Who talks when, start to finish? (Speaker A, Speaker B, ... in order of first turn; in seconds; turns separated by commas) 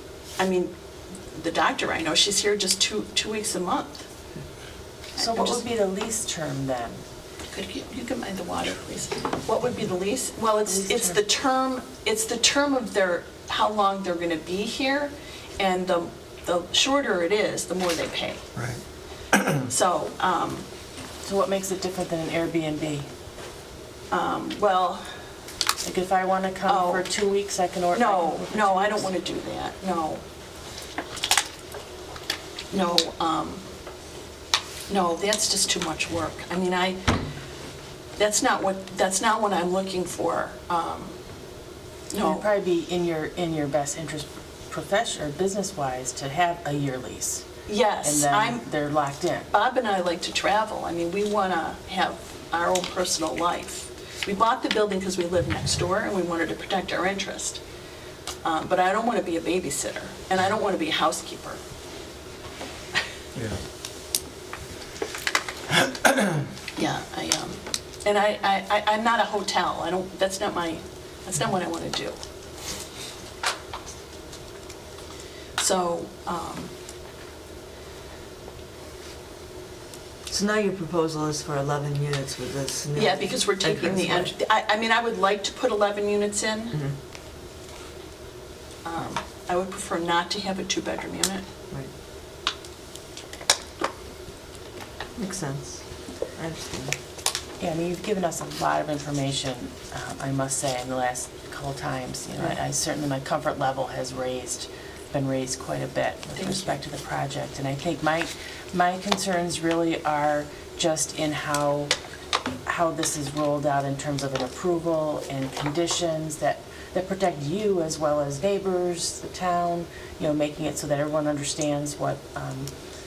Speaker A: 0.4-0.7, Speaker A: 1.3-4.1, Speaker A: 5.2-5.6, Speaker B: 5.2-7.0, Speaker A: 7.5-18.4, Speaker B: 10.7-11.2, Speaker A: 19.6-20.7, Speaker B: 21.2-23.1, Speaker A: 24.1-25.0, Speaker B: 25.8-29.0, Speaker A: 26.6-27.1, Speaker A: 27.9-30.2, Speaker A: 32.7-33.6, Speaker A: 34.9-37.1, Speaker A: 38.1-41.1, Speaker A: 42.1-42.4, Speaker B: 42.2-47.5, Speaker A: 47.7-48.6, Speaker B: 48.0-49.5, Speaker A: 49.5-57.6, Speaker A: 58.4-61.6, Speaker A: 66.8-72.2, Speaker A: 75.6-76.7, Speaker C: 80.3-84.2, Speaker A: 83.0-86.8, Speaker A: 88.8-91.4, Speaker C: 95.2-96.9, Speaker B: 97.6-111.9, Speaker A: 106.3-106.7, Speaker B: 112.6-122.7